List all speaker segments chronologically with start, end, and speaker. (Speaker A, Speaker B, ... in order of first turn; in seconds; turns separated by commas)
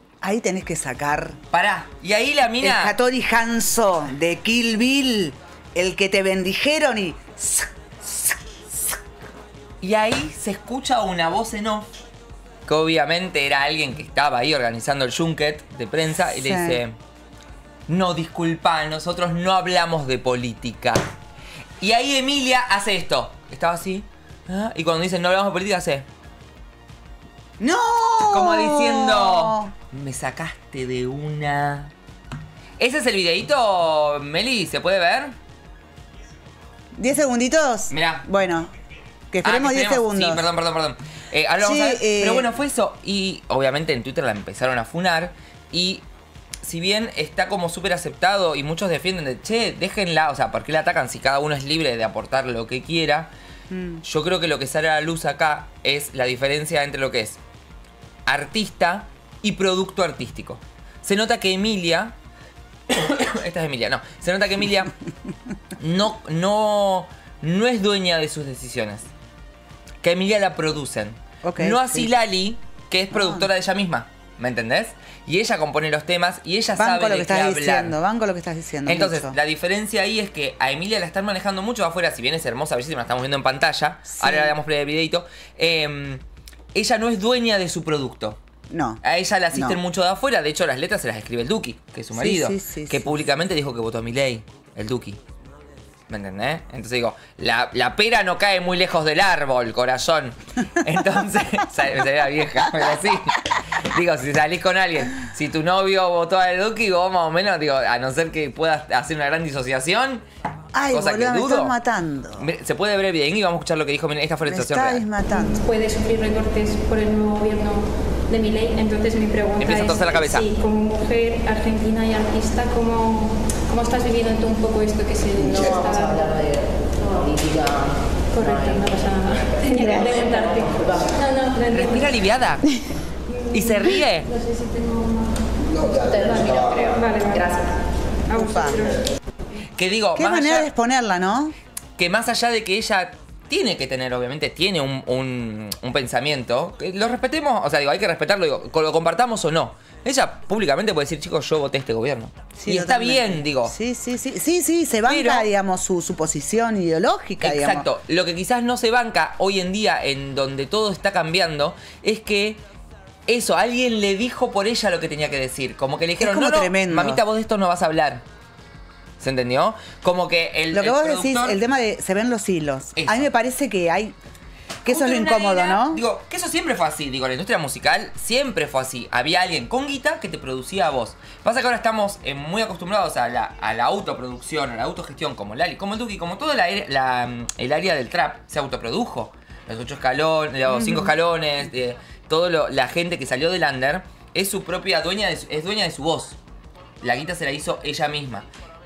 Speaker A: 0.2-1.4, Speaker B: 1.5-2.9, Speaker A: 2.6-9.0, Speaker B: 9.8-11.9, Speaker B: 12.7-16.9, Speaker A: 16.3-16.8, Speaker B: 17.9-21.0, Speaker B: 21.8-26.1, Speaker A: 27.6-29.7, Speaker B: 28.3-31.9, Speaker B: 32.8-35.3, Speaker A: 36.9-38.7, Speaker B: 37.9-38.3, Speaker A: 39.3-40.4, Speaker B: 39.4-46.0, Speaker A: 41.6-42.5, Speaker B: 46.6-53.3, Speaker A: 53.7-54.0, Speaker B: 54.0-57.4, Speaker B: 58.3-62.1, Speaker B: 62.9-64.9, Speaker B: 65.8-69.1, Speaker B: 70.0-78.0, Speaker A: 71.4-72.1, Speaker A: 73.1-73.5, Speaker A: 76.7-79.3, Speaker B: 78.8-86.2, Speaker A: 84.1-84.5, Speaker B: 86.7-88.4, Speaker A: 88.7-89.8, Speaker B: 89.0-95.2, Speaker A: 92.1-93.2, Speaker B: 96.1-110.2, Speaker A: 110.7-112.5, Speaker B: 110.9-111.7, Speaker B: 112.4-115.1, Speaker A: 114.4-115.6, Speaker C: 115.3-126.5, Speaker B: 119.6-120.5, Speaker D: 125.4-131.1, Speaker C: 128.3-132.2, Speaker B: 131.7-132.7, Speaker C: 133.4-137.7, Speaker B: 133.5-134.3, Speaker D: 135.9-137.6, Speaker C: 138.3-139.1, Speaker A: 138.3-138.9, Speaker B: 139.8-140.7, Speaker A: 140.2-141.5, Speaker B: 142.0-153.7, Speaker A: 152.6-157.8, Speaker B: 155.1-155.5, Speaker B: 157.4-162.6, Speaker B: 163.3-168.2, Speaker A: 166.2-167.2, Speaker B: 169.2-171.6, Speaker A: 170.7-174.1, Speaker B: 172.9-173.3, Speaker A: 174.8-176.0, Speaker B: 174.9-196.4, Speaker A: 190.7-191.1, Speaker B: 197.0-198.4